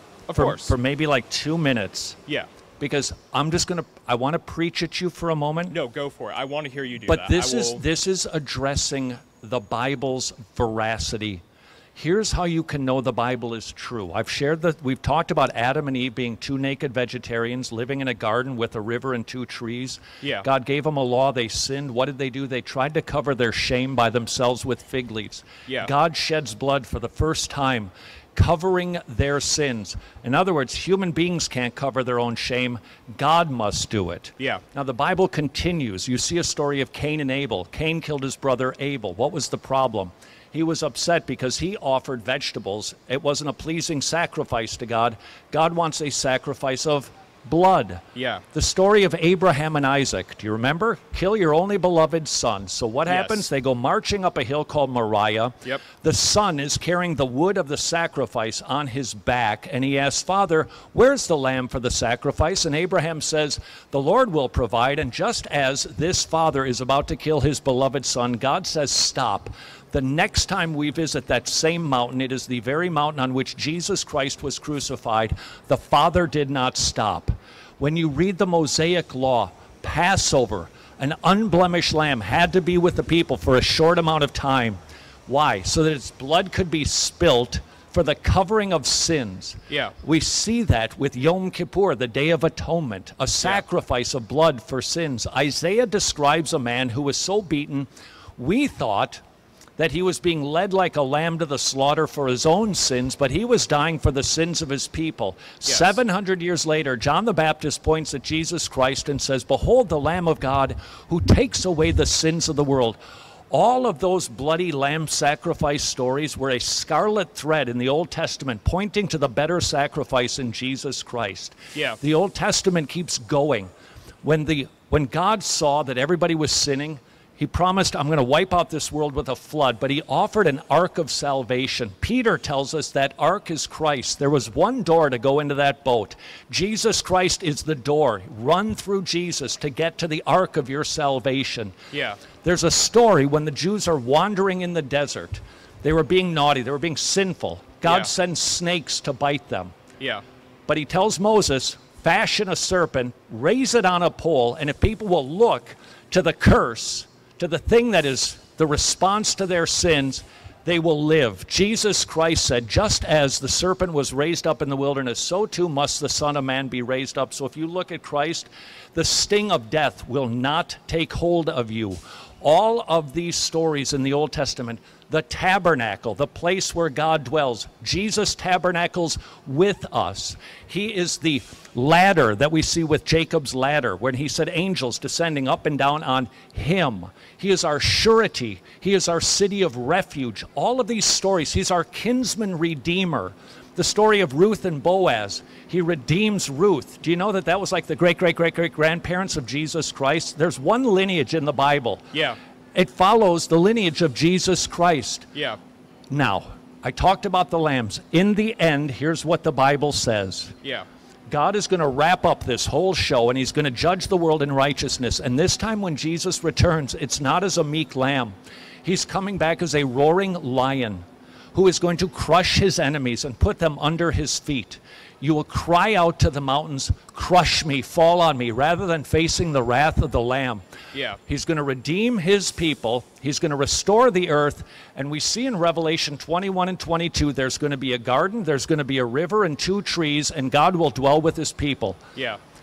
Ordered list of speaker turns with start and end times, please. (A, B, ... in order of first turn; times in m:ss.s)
0:00.3-0:00.7 A
0:00.4-0:02.2 B
0:02.8-0:05.8 B
0:05.7-0:07.8 A
0:07.0-0:11.4 B
0:12.0-1:39.2 B
0:48.2-0:48.4 A
0:53.1-0:53.4 A
1:39.8-1:53.0 B
1:45.6-1:46.0 A
1:53.5-2:03.7 B
2:04.2-2:21.7 B
2:21.9-2:22.2 A
2:22.4-2:29.8 B
2:27.8-2:28.1 A
2:30.7-3:22.1 B
3:22.1-3:22.4 A
3:22.7-3:25.3 B
3:26.1-3:30.6 B
3:31.3-3:41.0 B
3:41.5-3:50.6 B
3:50.9-3:51.2 A
3:51.2-4:02.0 B